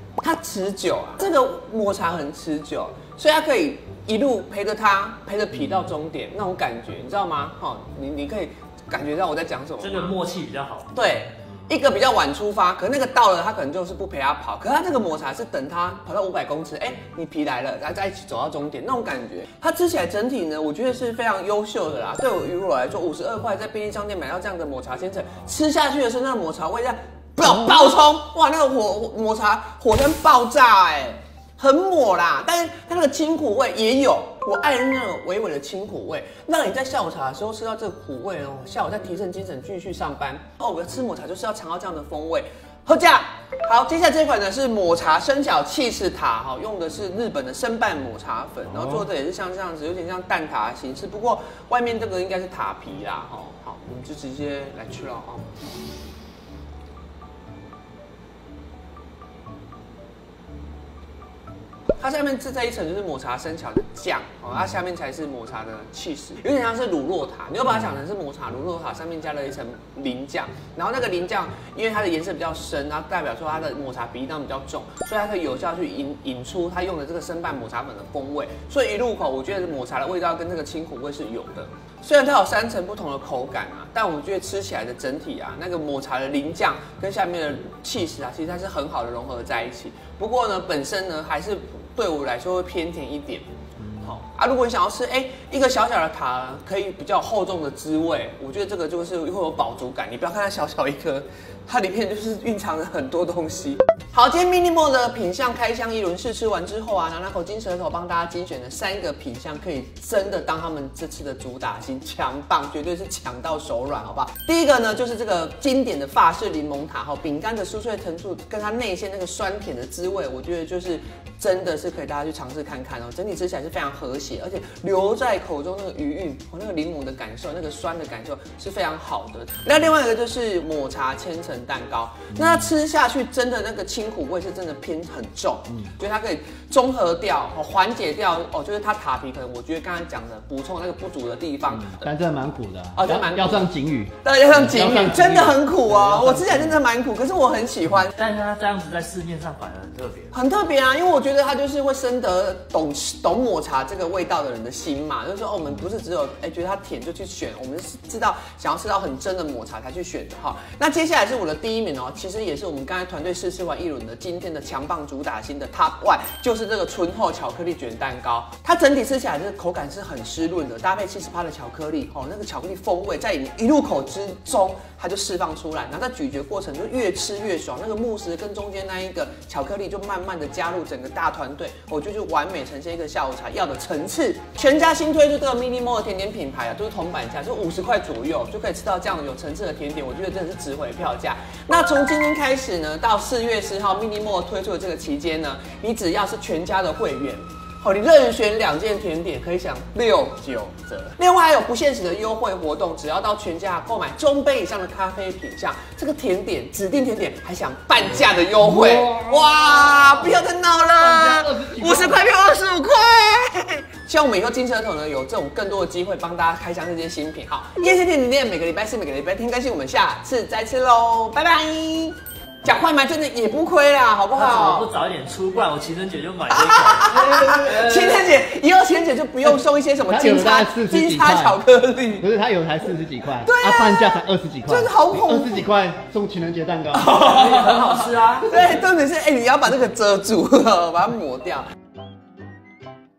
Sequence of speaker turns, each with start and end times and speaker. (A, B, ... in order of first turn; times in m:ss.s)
0:00.2-0:10.1 A
0:09.8-0:10.9 B
0:10.9-0:55.5 A
0:48.7-0:49.0 C
1:02.0-1:33.4 A
1:33.8-1:34.1 C
1:34.0-2:22.1 A
2:21.9-2:26.8 C
2:22.9-2:28.1 A
2:28.1-2:30.3 B
2:30.3-3:44.9 A
3:28.6-3:30.4 C
3:31.0-3:32.3 C
3:44.3-3:48.2 B
3:46.5-3:52.3 A
3:50.0-3:51.6 C
3:52.2-3:57.2 C
3:53.4-3:55.6 A
3:57.0-4:01.6 A
3:57.0-3:58.6 B